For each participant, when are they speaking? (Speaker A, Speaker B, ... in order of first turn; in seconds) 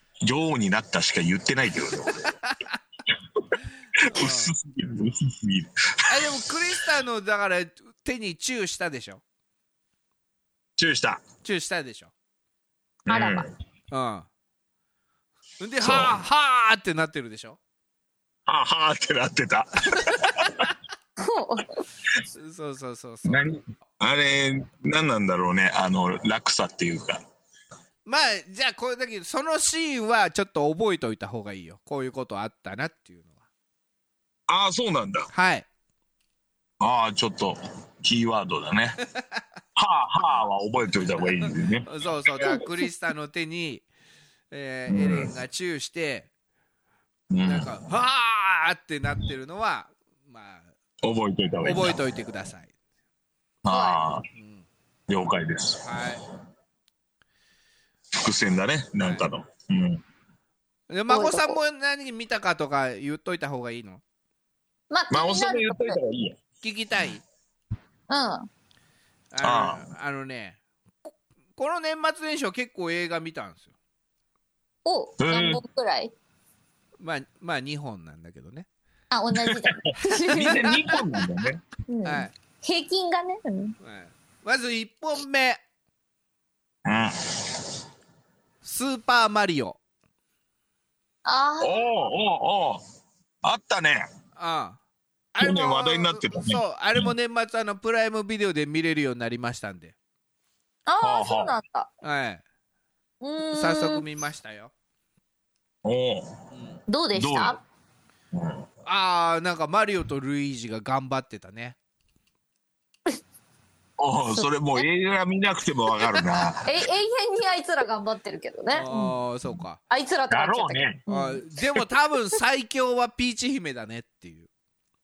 Speaker A: 0.2-2.3, 4.0-6.3, 10.8-11.2, 13.1-13.5, 15.8-16.2, 18.5-20.7, 23.2-27.2, 34.5-35.3, 36.8-39.0, 39.8-41.9, 44.9-45.3, 47.3-47.7, 51.0-52.0, 53.6-54.2, 55.1-55.9, 58.1-60.0, 65.1-66.4, 69.4-69.9, 75.2-75.6, 79.4-81.6, 86.8-87.6, 91.6-92.8, 93.4-94.1, 95.4-97.1, 101.0-101.5, 105.8-106.3, 107.1-107.6, 108.3-108.7, 114.0-116.8, 120.3-121.0
Speaker B: 2.1-2.8, 4.1-4.5, 6.1-9.2, 11.4-12.1, 13.9-14.3, 15.6-17.6, 19.9-20.7, 22.4-23.4, 28.1-33.4, 35.3-35.7, 41.4-43.9, 44.5-46.3, 47.4-50.7, 51.6-52.7, 54.4-54.7, 55.8-56.2, 59.0-59.2, 60.9-64.0, 66.6-67.2, 69.3-70.6, 71.6-73.7, 77.0-78.7, 80.0-81.0, 82.0-82.3, 83.8-85.6, 88.6-89.8, 94.4-94.8, 95.3-99.9, 102.0-102.4, 103.5-104.7, 106.5-106.8, 108.9-111.8, 118.7-119.8, 121.1-124.5
Speaker C: 13.1-13.5, 21.2-21.8, 53.7-54.0, 61.1-61.6, 64.9-66.0, 68.1-68.5, 74.8-76.1, 79.1-80.6, 81.9-83.8, 91.2-91.8, 100.9-101.9, 103.2-104.0, 106.9-107.6, 114.3-114.9, 116.6-119.1, 119.9-121.4